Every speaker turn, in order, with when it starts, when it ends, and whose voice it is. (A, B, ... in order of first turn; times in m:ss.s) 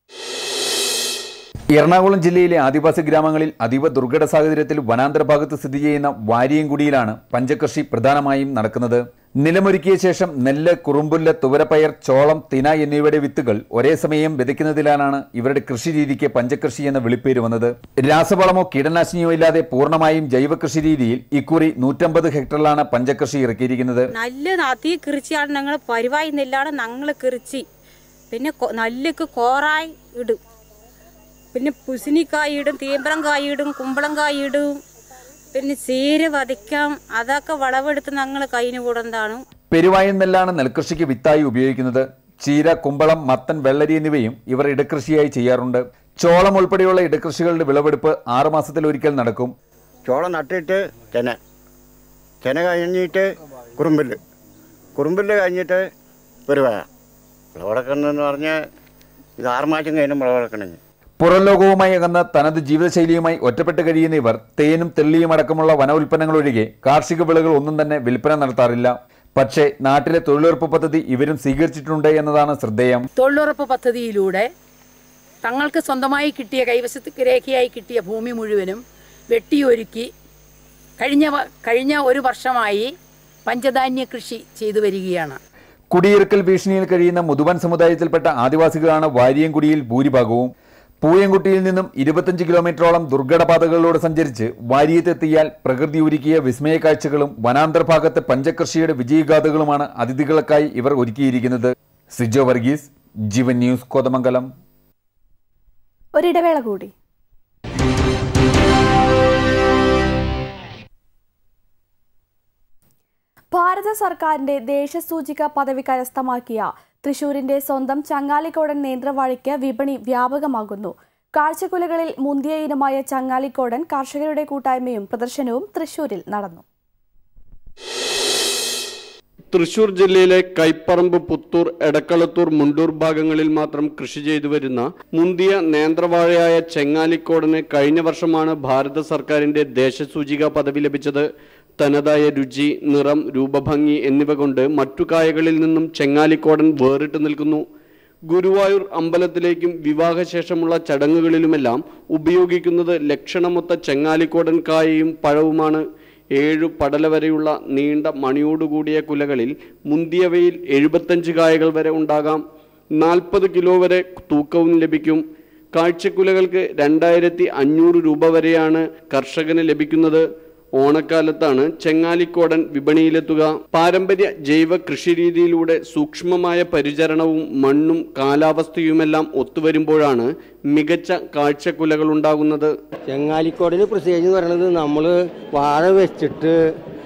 0:01.7-0:24.1 A
0:24.2-0:27.6 B
0:28.3-0:30.4 B
0:31.5-0:34.8 B
0:35.5-0:39.4 B
0:39.7-0:49.5 A
0:50.1-0:51.4 C
0:52.4-0:53.2 C
0:53.8-0:54.2 C
0:55.0-0:55.8 C
0:56.5-0:56.8 C
0:57.6-0:58.6 C
0:59.4-1:00.8 C
1:01.2-1:13.1 A
1:13.2-1:14.5 D
1:15.4-1:20.1 D
1:21.0-1:22.9 D
1:23.5-1:25.4 D
1:25.9-1:30.5 A
1:31.0-1:44.5 A
1:46.2-1:46.9 E
1:53.5-2:06.6 E
2:09.5-2:21.2 F
2:21.8-2:27.6 F
2:28.3-2:35.8 F
2:36.4-2:42.4 F
2:43.0-2:45.2 F
2:45.7-2:50.2 F
2:50.8-3:02.7 F
3:03.1-3:06.6 G